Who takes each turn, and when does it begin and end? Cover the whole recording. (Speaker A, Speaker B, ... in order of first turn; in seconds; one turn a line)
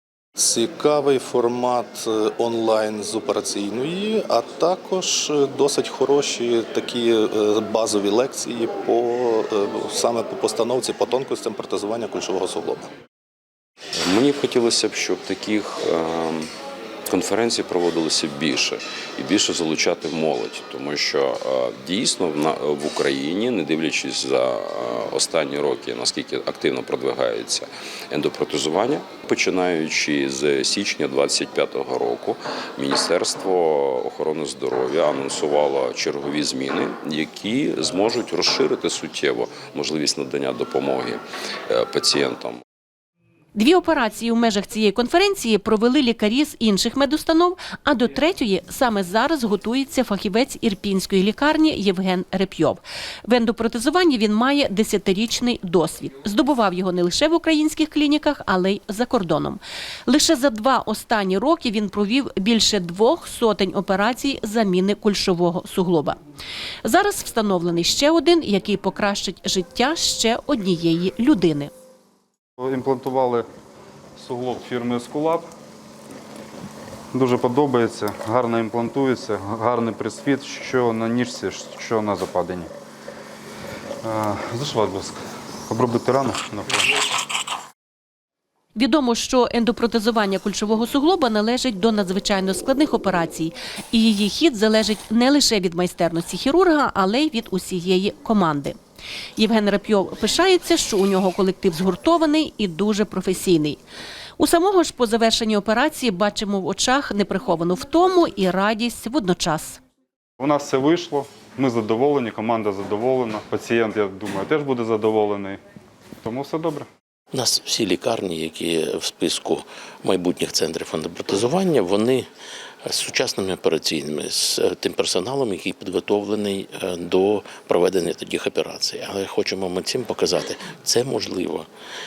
Speaker A: 0.5-12.8
Speaker B: 14.0-16.5
Speaker B: 17.1-42.6
Speaker C: 43.5-66.2
Speaker C: 66.8-71.7
Speaker D: 72.6-73.4
Speaker D: 74.2-75.5
Speaker D: 77.1-82.7
Speaker D: 84.0-86.9
Speaker C: 88.7-98.8
Speaker C: 99.4-103.8
Speaker C: 104.4-109.8
Speaker D: 110.4-115.6
Speaker D: 116.2-116.9
Speaker E: 117.3-122.3
Speaker E: 122.8-131.7